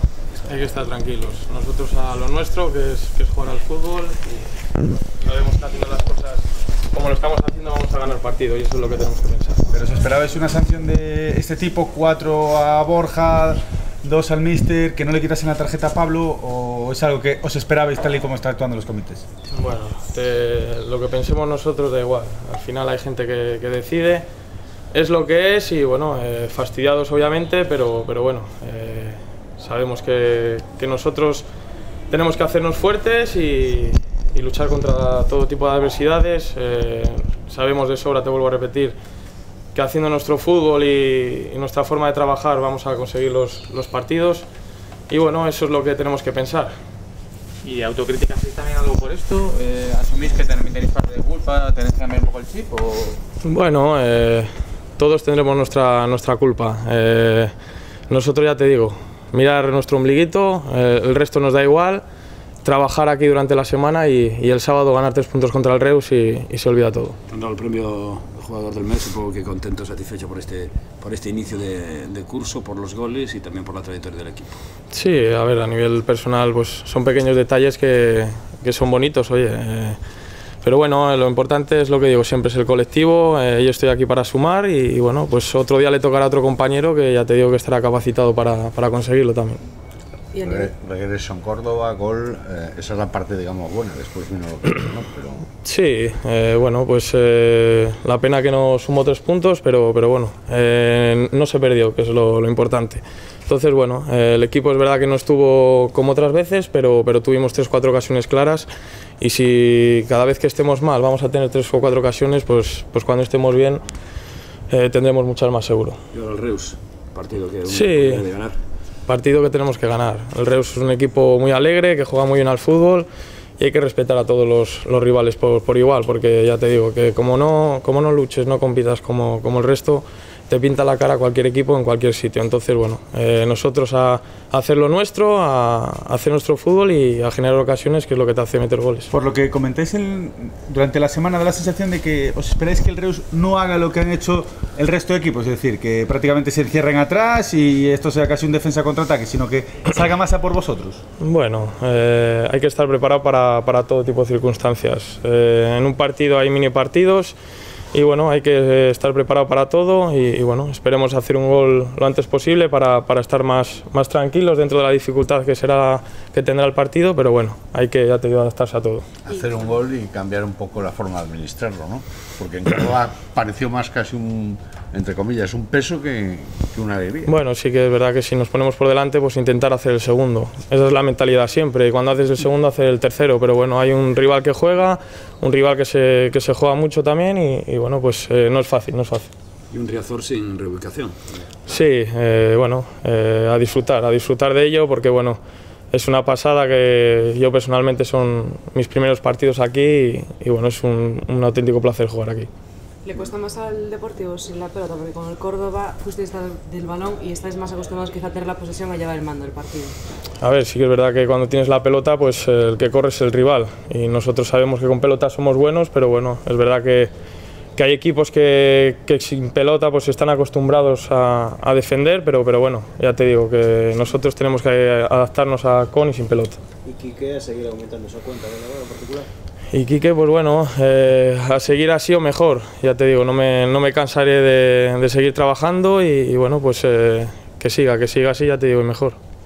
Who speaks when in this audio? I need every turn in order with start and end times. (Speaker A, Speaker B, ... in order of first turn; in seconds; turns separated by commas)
Speaker A: 0.5-9.7, Speaker B: 9.7-19.3, Speaker A: 19.5-24.3, Speaker A: 24.9-31.5, Speaker A: 32.1-39.0, Speaker A: 39.7-44.5, Speaker A: 45.1-46.7, Speaker C: 47.6-53.2, Speaker A: 53.4-57.5, Speaker A: 58.1-62.0, Speaker A: 62.6-67.2, Speaker D: 67.3-74.5, Speaker A: 74.9-80.0, Speaker A: 80.6-89.6, Speaker E: 90.3-90.7, Speaker F: 90.4-95.5, Speaker A: 95.6-108.7, Speaker A: 109.2-113.8, Speaker A: 114.7-116.0, Speaker D: 116.1-118.6, Speaker A: 117.7-118.2, Speaker A: 119.1-123.1, Speaker A: 123.6-139.1, Speaker B: 139.1-151.0, Speaker A: 151.2-157.4, Speaker A: 157.9-169.1, Speaker F: 169.2-177.5, Speaker A: 177.3-189.3, Speaker D: 189.7-191.3, Speaker A: 191.7-195.4, Speaker A: 195.9-202.5, Speaker E: 203.0-209.9, Speaker A: 210.4-217.1, Speaker A: 217.8-226.6, Speaker G: 226.8-229.3, Speaker A: 229.7-239.2